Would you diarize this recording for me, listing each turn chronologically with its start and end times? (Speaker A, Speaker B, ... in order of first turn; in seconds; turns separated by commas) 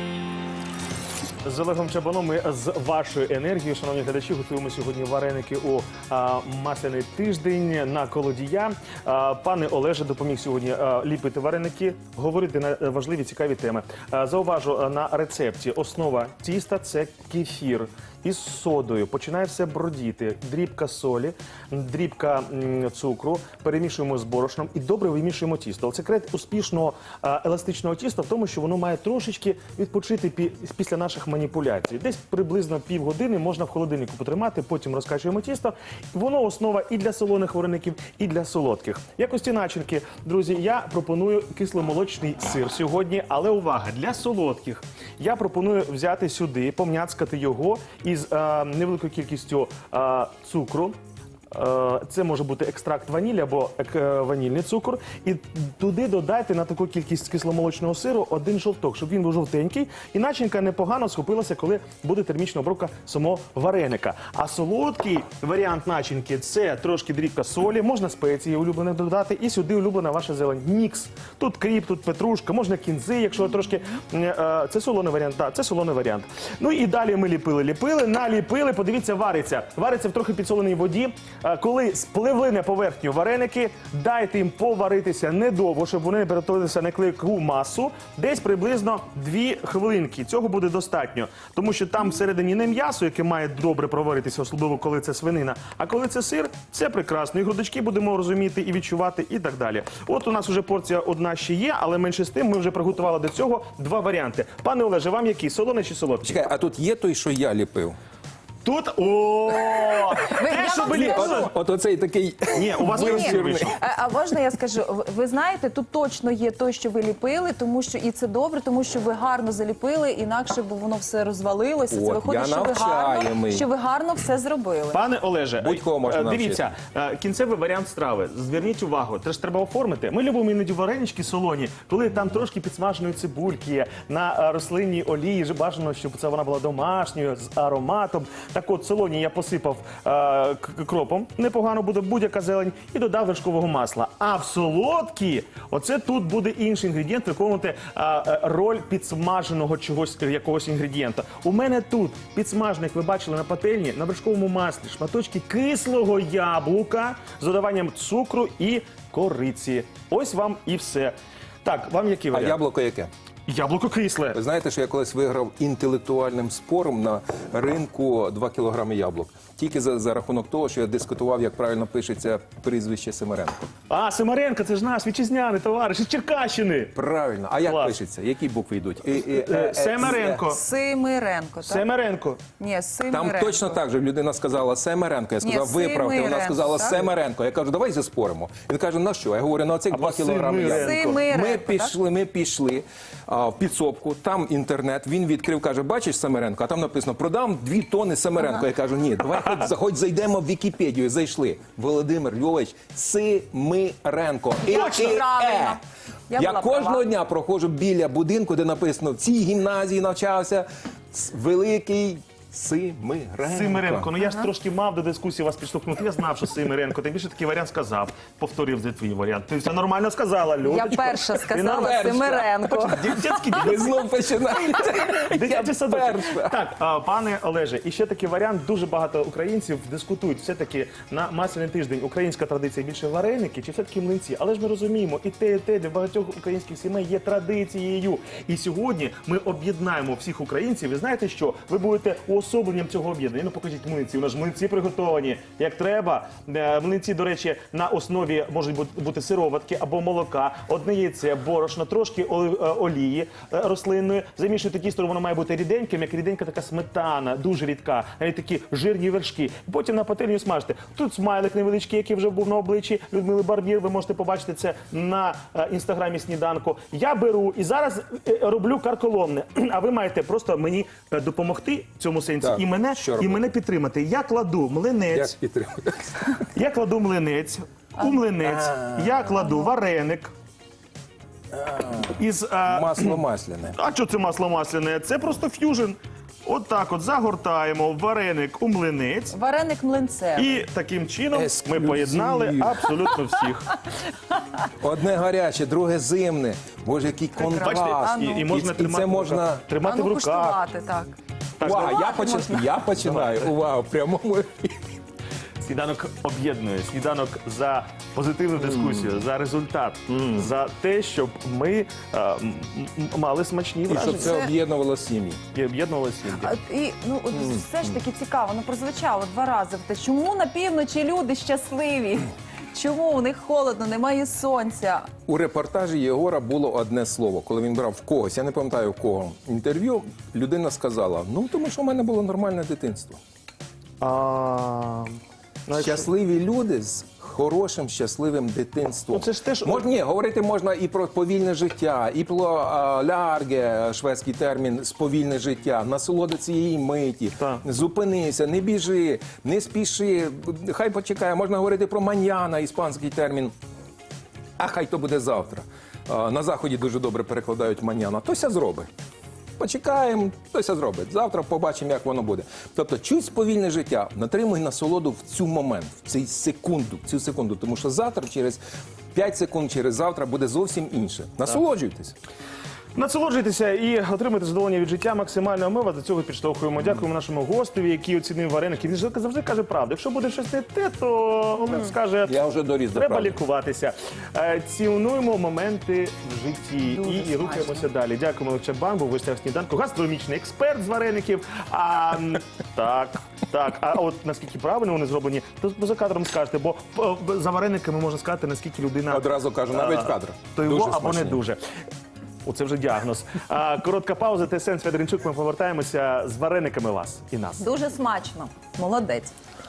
Speaker A: 1.4-51.0, Speaker A: 51.5-106.5, Speaker B: 106.2-108.0, Speaker A: 108.6-111.5, Speaker C: 110.2-111.5, Speaker B: 110.8-113.8, Speaker A: 112.5-113.8, Speaker C: 112.7-125.0, Speaker B: 121.9-123.7, Speaker A: 124.9-162.6, Speaker B: 125.6-126.7, Speaker B: 162.3-163.1, Speaker A: 163.5-164.4, Speaker B: 164.3-173.6, Speaker A: 173.9-176.9, Speaker B: 176.9-180.4, Speaker A: 177.7-178.0, Speaker A: 179.2-180.6, Speaker C: 180.3-181.9, Speaker A: 181.6-182.4, Speaker C: 182.6-183.8, Speaker B: 183.1-205.8, Speaker C: 185.4-187.1, Speaker A: 189.9-191.2, Speaker C: 190.7-191.9, Speaker C: 204.7-207.1, Speaker A: 204.7-205.1, Speaker B: 206.3-214.1, Speaker A: 213.4-223.8, Speaker C: 214.2-214.5, Speaker C: 220.6-223.1, Speaker B: 221.8-226.5, Speaker A: 224.8-275.3, Speaker B: 272.4-273.4, Speaker B: 275.1-276.4, Speaker A: 276.6-280.3, Speaker B: 278.4-279.1, Speaker B: 281.5-282.1, Speaker A: 282.1-283.2, Speaker B: 282.7-283.8, Speaker A: 283.8-289.4, Speaker C: 289.3-290.6, Speaker A: 290.4-293.7, Speaker B: 291.3-292.9, Speaker B: 294.8-299.6, Speaker C: 297.4-298.4, Speaker A: 297.6-300.6, Speaker C: 299.8-301.2, Speaker A: 301.6-302.1, Speaker B: 301.6-304.8, Speaker C: 301.8-302.7, Speaker A: 303.0-303.5, Speaker A: 305.6-314.4, Speaker B: 313.9-315.4, Speaker C: 314.2-314.5, Speaker A: 315.5-316.5, Speaker C: 316.4-325.1, Speaker B: 325.3-333.2, Speaker A: 334.0-336.1, Speaker B: 335.7-353.5, Speaker A: 339.1-339.9, Speaker B: 354.6-358.9, Speaker B: 359.6-368.6, Speaker B: 369.1-372.1, Speaker A: 372.9-382.4, Speaker B: 382.3-383.4, Speaker A: 382.9-401.6, Speaker C: 386.8-387.9, Speaker B: 399.1-401.4, Speaker A: 402.4-407.6, Speaker C: 407.6-409.4